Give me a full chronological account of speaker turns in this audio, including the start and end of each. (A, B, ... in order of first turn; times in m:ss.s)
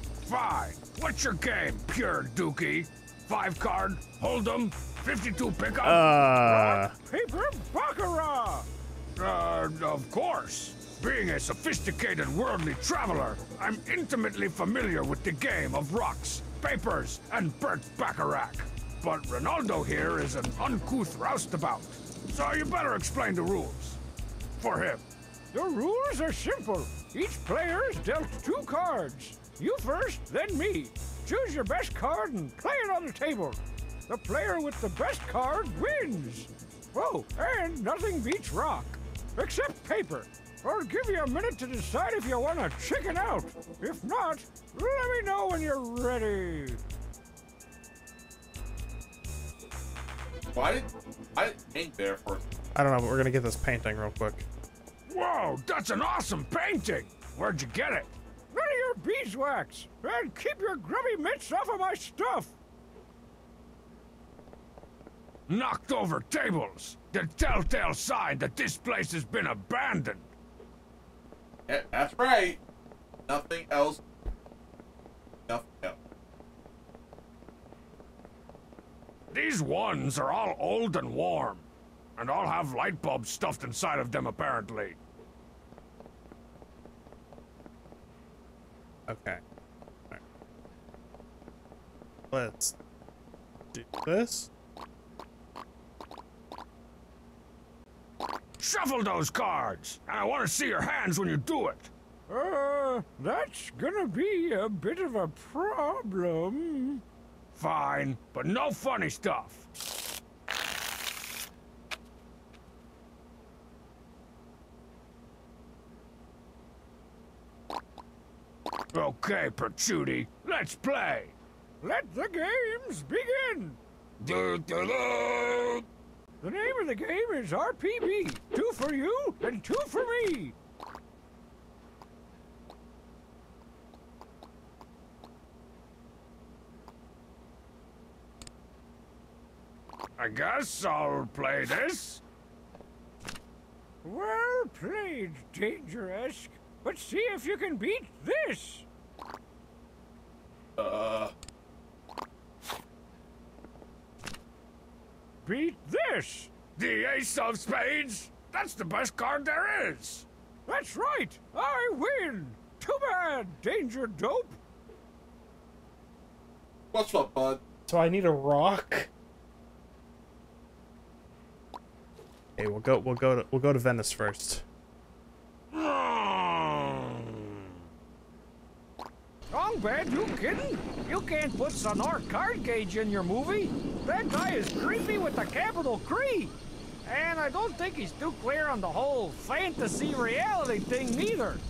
0:00.2-0:06.2 A
0:05.8-0:06.9 B
0:06.4-0:08.7 C
0:09.2-0:24.0 A
0:24.6-0:25.0 A
0:25.5-0:46.8 C
0:50.5-0:52.5 D
0:52.7-0:54.4 B
0:55.1-0:58.1 A
0:58.5-1:02.5 C
1:05.5-1:10.3 A
1:11.7-1:12.6 D
1:13.3-1:14.0 D
1:15.5-1:16.0 D
1:19.3-1:21.6 A
1:22.2-1:25.0 A
1:29.1-1:29.4 B
1:32.3-1:32.8 B
1:33.7-1:34.5 B
1:38.6-1:41.9 A
1:42.3-1:47.0 C
1:47.5-1:49.7 A
1:58.9-2:01.3 A
2:01.8-2:03.8 C
2:04.2-2:05.8 A
2:06.4-2:10.6 C
2:20.2-2:22.2 A
2:24.0-2:28.8 C
2:30.8-2:31.3 D
2:35.4-2:36.6 C
2:36.7-2:40.2 A
2:40.7-2:44.6 C
2:46.9-2:47.6 D
2:47.9-2:49.1 B
2:52.6-2:54.6 B
2:55.7-2:57.0 A
2:59.5-3:11.6 C